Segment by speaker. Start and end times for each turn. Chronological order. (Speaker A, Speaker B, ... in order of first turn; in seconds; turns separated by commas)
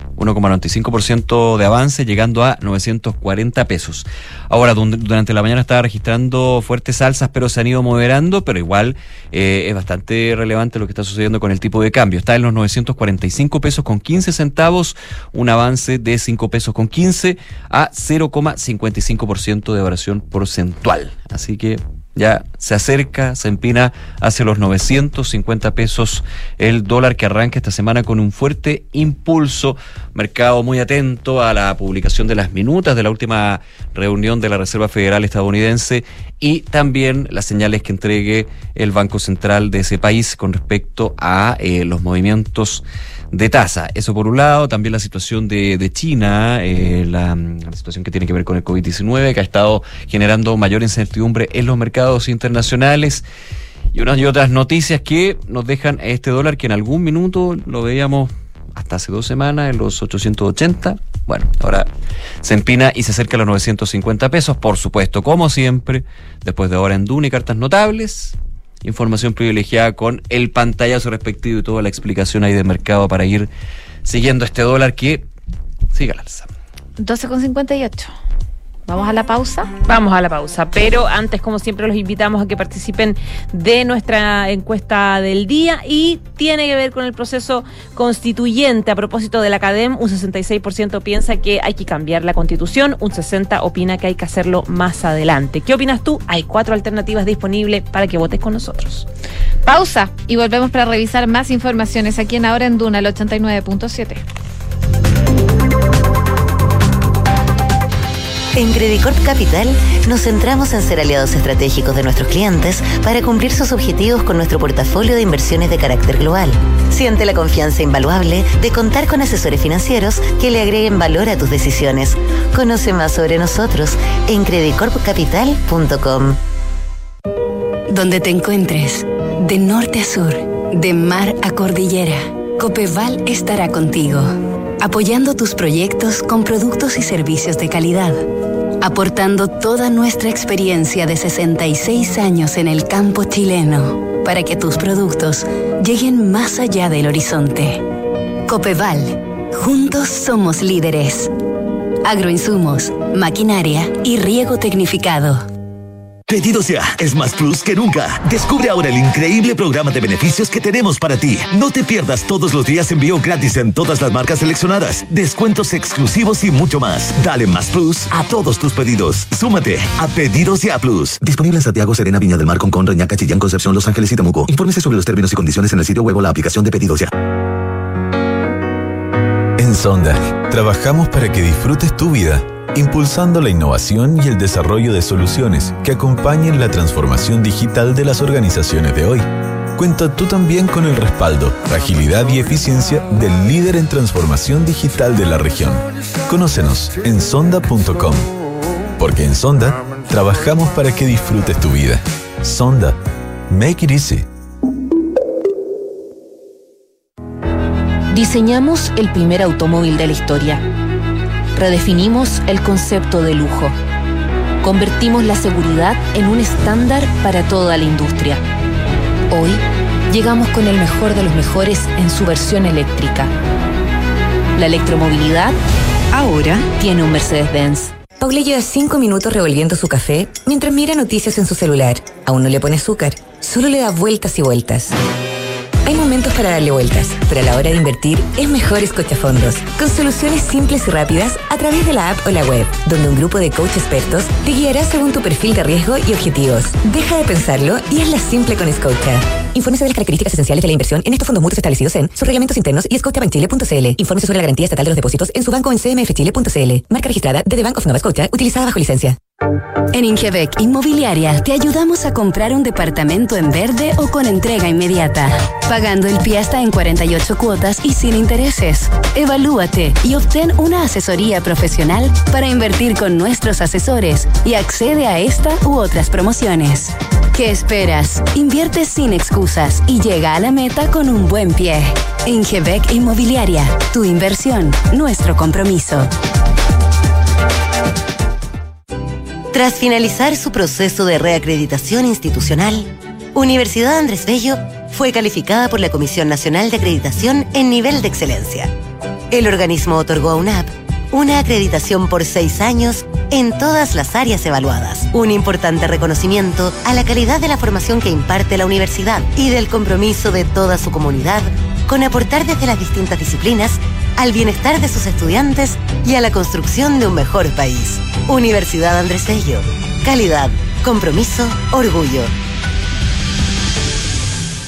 Speaker A: 0.2-53.2, Speaker A: 53.9-61.9, Speaker A: 62.4-73.5, Speaker A: 74.0-75.2, Speaker A: 75.9-76.5, Speaker B: 77.0-78.1, Speaker B: 78.9-79.7, Speaker C: 79.9-99.0, Speaker B: 99.6-104.2, Speaker D: 108.5-126.4, Speaker E: 127.9-138.2, Speaker E: 138.8-147.8, Speaker E: 148.5-151.3, Speaker E: 152.0-155.4, Speaker F: 156.3-177.1, Speaker G: 179.6-198.3, Speaker G: 199.0-203.0, Speaker G: 203.5-204.2, Speaker H: 208.1-210.6, Speaker H: 211.5-213.8, Speaker H: 214.6-218.4, Speaker H: 219.3-223.3, Speaker H: 224.6-225.6, Speaker H: 226.6-227.9, Speaker I: 228.2-234.9, Speaker I: 235.8-259.2, Speaker E: 259.9-286.1, Speaker D: 289.5-298.7, Speaker D: 299.3-322.3